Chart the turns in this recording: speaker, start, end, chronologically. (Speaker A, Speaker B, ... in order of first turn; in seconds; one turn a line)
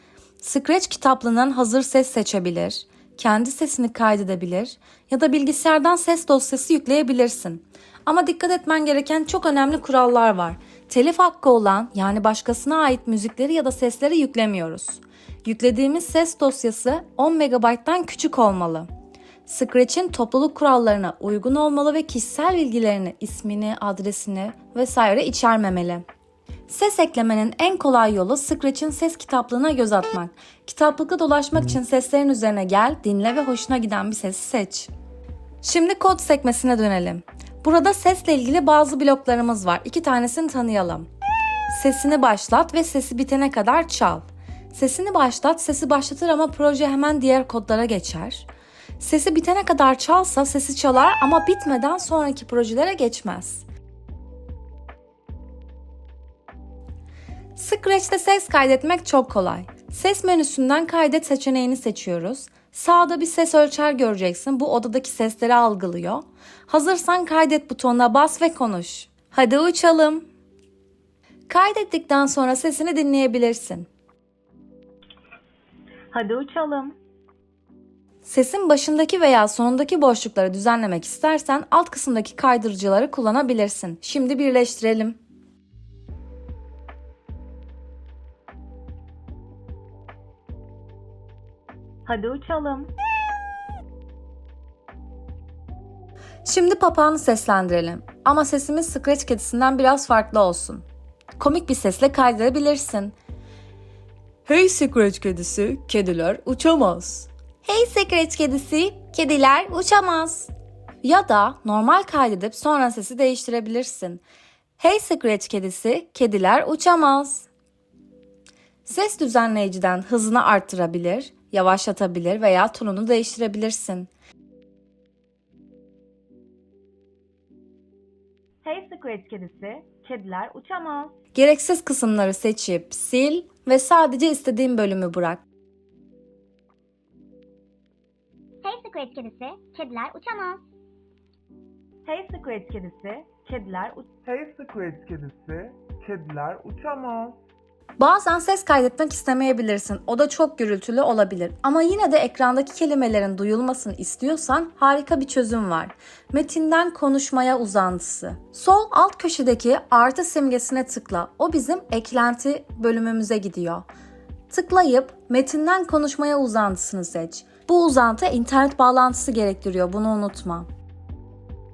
Speaker A: 0.4-18.9
Speaker A: 19.5-26.0
Speaker A: 26.7-34.9
Speaker A: 35.6-41.1
Speaker A: 41.7-48.5
Speaker A: 49.0-53.7
Speaker A: 57.5-70.3
Speaker A: 71.5-73.9
Speaker B: 76.1-77.0
Speaker A: 78.2-85.2
Speaker B: 92.1-92.9
Speaker A: 96.5-100.9
Speaker A: 101.4-103.2
Speaker A: 104.5-110.5
Speaker A: 111.0-114.2
Speaker A: 114.8-117.5
Speaker A: 118.8-124.1
Speaker B: 128.6-131.1
Speaker A: 131.3-135.4
Speaker C: 138.6-140.6
Speaker B: 142.1-144.1
Speaker D: 144.2-147.4
Speaker A: 148.0-163.9
Speaker A: 164.5-170.7